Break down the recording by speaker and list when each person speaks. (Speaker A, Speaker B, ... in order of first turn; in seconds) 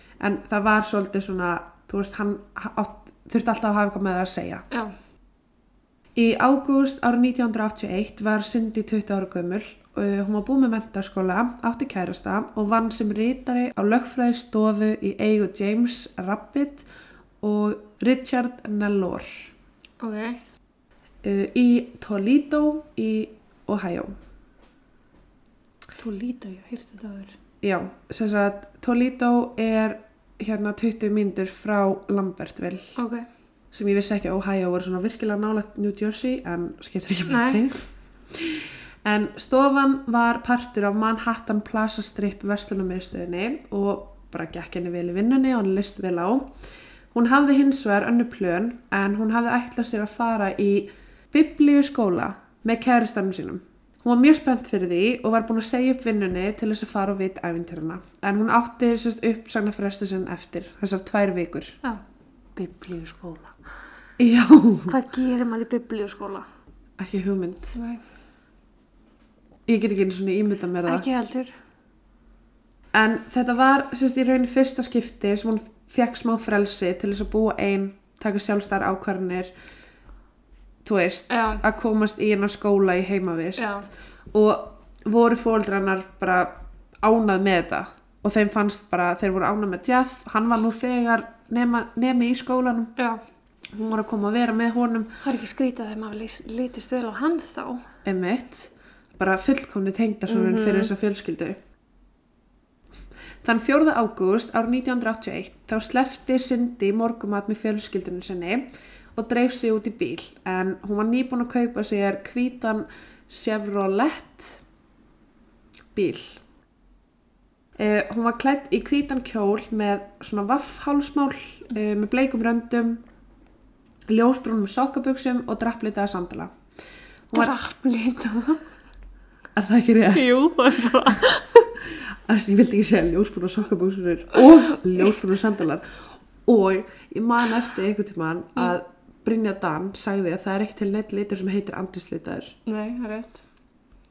Speaker A: 0.2-4.7, 6.2-16.9, 17.4-19.5, 21.2-24.2, 27.6-33.0, 33.7-46.4, 47.1-61.8, 64.2-64.9, 67.0-67.8, 69.7-71.1, 72.9-79.5, 80.8-83.7, 84.3-92.9, 93.7-95.1, 98.0-101.6, 103.4-108.6, 109.2-114.6, 116.0-116.4, 117.8-123.0, 124.1-126.5, 129.6-130.3, 132.3-142.6
Speaker B: 20.0-20.4, 26.0-27.3, 33.0-33.3, 37.3-37.6, 62.5-63.6, 64.9-66.5, 67.7-68.0, 70.9-71.5, 81.3-81.6, 83.6-83.9, 93.0-93.2, 95.2-97.9, 100.3-100.9, 127.3-128.6, 130.1-131.7, 142.7-143.4